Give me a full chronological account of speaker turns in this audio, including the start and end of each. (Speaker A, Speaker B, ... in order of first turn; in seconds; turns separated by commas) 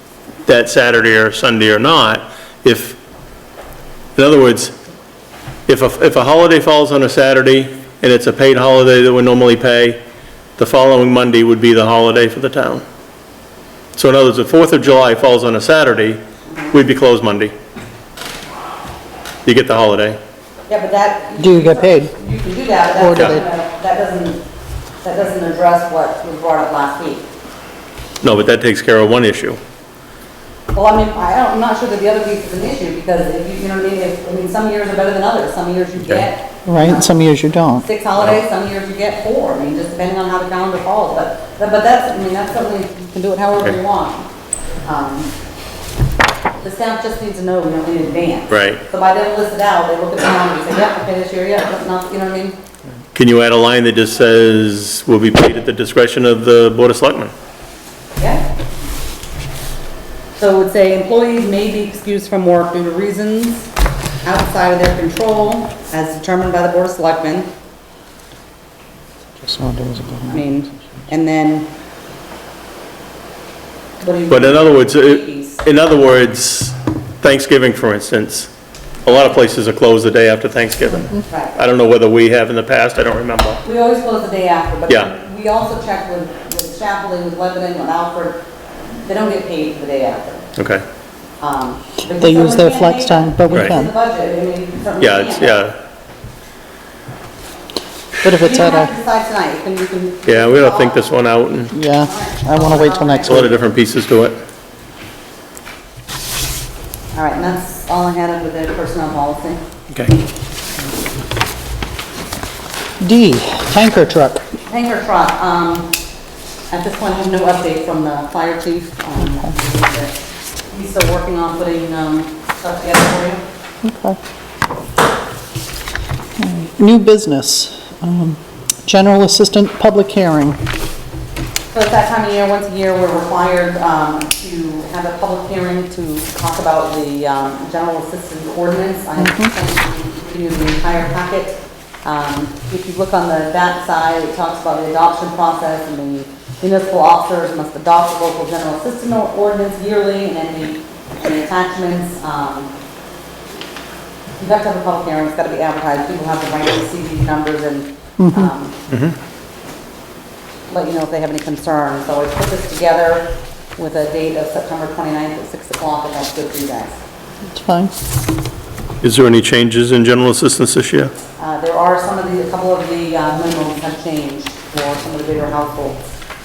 Speaker A: 0.5-3.0, Speaker A: 4.2-4.7, Speaker A: 5.7-10.0, Speaker A: 10.6-12.8, Speaker A: 14.0-16.2, Speaker B: 16.5-16.8, Speaker A: 16.7-17.5, Speaker A: 19.4-20.2, Speaker B: 20.7-24.4, Speaker C: 21.4-22.1, Speaker C: 23.0-23.4, Speaker B: 25.0-27.3, Speaker A: 28.2-29.6, Speaker B: 30.7-37.2, Speaker C: 36.7-37.9, Speaker B: 37.8-44.3, Speaker B: 44.8-45.3, Speaker B: 46.6-52.6, Speaker A: 48.5-48.8, Speaker A: 53.1-57.3, Speaker B: 58.2-58.5, Speaker B: 60.4-63.7, Speaker B: 64.2-67.5, Speaker C: 69.4-70.4, Speaker B: 70.3-71.7, Speaker B: 74.0-75.6, Speaker A: 74.3-78.5, Speaker A: 79.0-83.6, Speaker B: 81.3-81.6, Speaker B: 83.6-88.4, Speaker B: 89.0-90.5, Speaker A: 90.5-90.8, Speaker B: 91.4-95.6, Speaker C: 92.2-93.9, Speaker A: 95.0-95.8, Speaker C: 98.2-98.9, Speaker B: 98.2-101.1, Speaker A: 100.2-101.8, Speaker C: 101.7-103.5, Speaker B: 101.9-103.5, Speaker A: 103.2-104.4, Speaker B: 107.1-109.6, Speaker C: 113.0-114.5, Speaker B: 114.7-115.9, Speaker B: 116.7-120.1, Speaker B: 120.7-123.4, Speaker C: 123.8-124.2, Speaker C: 126.4-130.6, Speaker B: 131.7-152.7, Speaker C: 139.2-139.5, Speaker B: 154.4-158.8, Speaker C: 158.2-158.5, Speaker A: 158.9-159.2, Speaker B: 160.7-167.0, Speaker C: 167.5-167.9, Speaker A: 169.0-171.1, Speaker B: 171.4-176.1